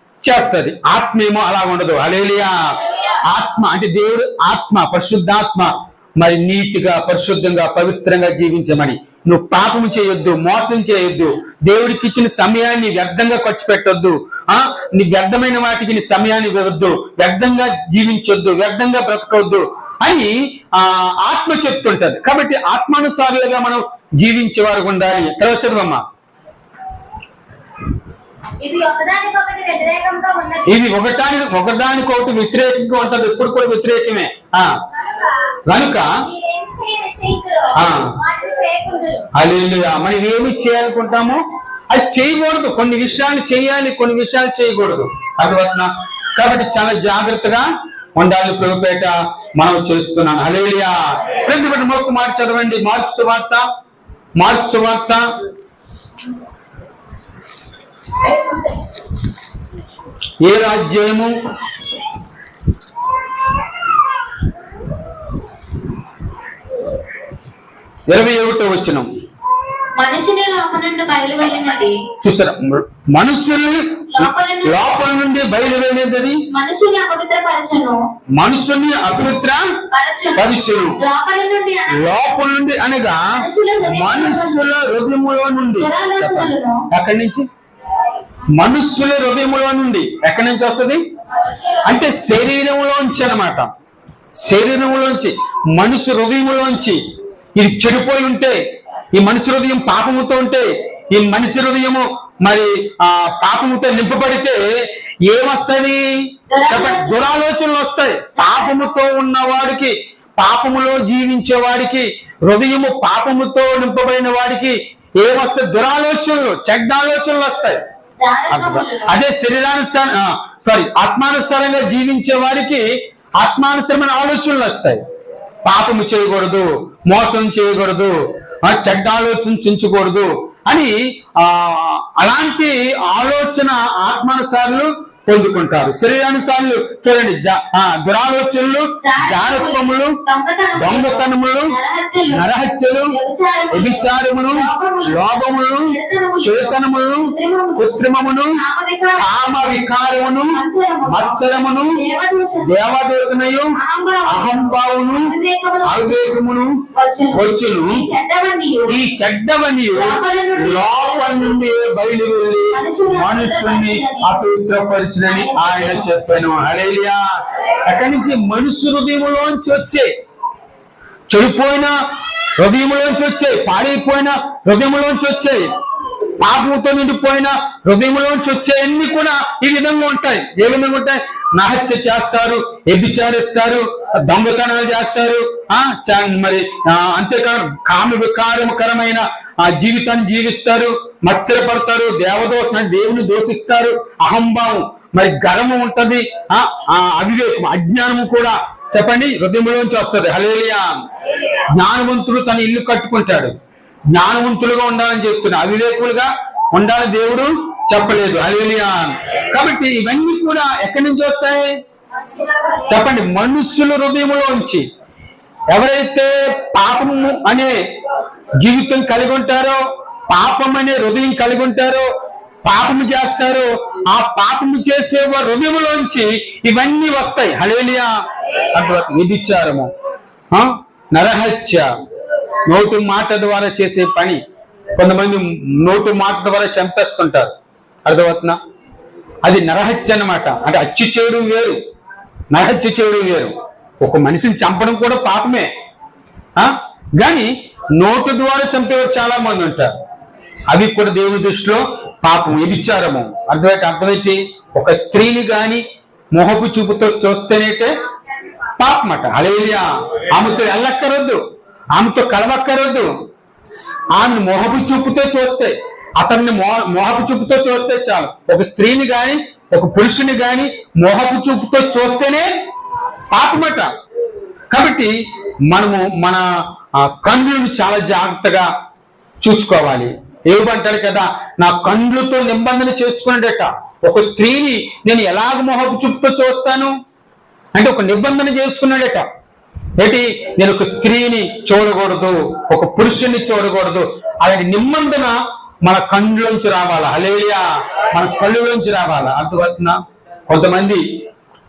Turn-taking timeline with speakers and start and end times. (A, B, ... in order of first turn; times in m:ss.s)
0:00.2-0:26.0 A
0:28.6-0:30.7 B
0:30.6-0:34.7 A
0:35.7-0:36.1 A
0:36.3-0:39.3 B
0:37.7-0:38.2 A
0:39.3-0:53.6 A
0:54.4-0:55.2 A
1:00.4-1:01.3 A
1:08.1-1:09.1 A
1:10.0-1:12.0 C
1:12.2-1:16.4 A
1:14.1-1:14.9 C
1:16.5-1:18.0 C
1:18.4-1:19.6 A
1:19.9-1:22.1 C
1:20.4-1:21.0 A
1:21.9-1:23.3 A
1:23.4-1:24.6 C
1:23.8-1:27.5 A
1:25.8-1:26.8 C
1:28.6-1:31.0 A
1:31.8-1:33.7 A
1:34.4-1:37.0 A
1:37.6-1:38.6 A
1:39.2-1:44.6 A
1:45.2-1:46.1 A
1:46.5-1:47.2 C
1:46.6-1:57.8 A
1:48.4-1:48.8 C
1:58.2-1:59.1 C
1:58.5-2:02.8 A
2:03.4-2:05.0 A
2:05.6-2:08.1 A
2:08.6-2:20.2 A
2:19.0-2:22.4 C
2:20.8-2:21.8 A
2:22.3-2:23.2 A
2:23.1-2:28.0 C
2:23.7-2:28.6 A
2:28.5-2:29.3 C
2:29.2-2:32.0 A
2:30.5-2:32.7 C
2:32.6-2:38.0 A
2:33.8-2:36.4 C
2:36.9-2:39.0 C
2:38.9-2:47.2 A
2:39.9-2:41.6 C
2:42.7-2:44.3 C
2:45.3-2:46.1 C
2:47.8-2:50.1 A
2:51.3-2:51.9 A
2:52.6-2:55.6 A
2:56.4-3:20.9 A
3:21.8-3:23.5 A
3:24.1-3:31.7 A
3:32.3-3:32.7 C
3:32.8-3:34.9 A
3:35.7-3:37.8 A
3:38.6-3:42.1 A
3:42.6-3:48.1 A
3:48.7-3:49.9 A
3:50.5-3:51.9 A
3:52.6-3:54.4 A
3:55.0-3:57.5 A
3:58.0-3:58.6 A
3:59.4-4:01.8 A
4:02.5-4:05.7 A
4:06.6-4:10.0 A
4:10.7-4:15.8 A
4:16.3-4:18.0 A
4:18.8-4:21.4 A
4:22.0-4:23.1 A
4:24.1-4:32.5 A
4:33.3-4:33.9 A
4:34.7-4:35.1 A
4:35.7-4:36.4 A
4:37.0-4:38.7 A
4:39.4-4:46.9 A
4:47.7-4:49.2 A
4:50.0-5:01.0 A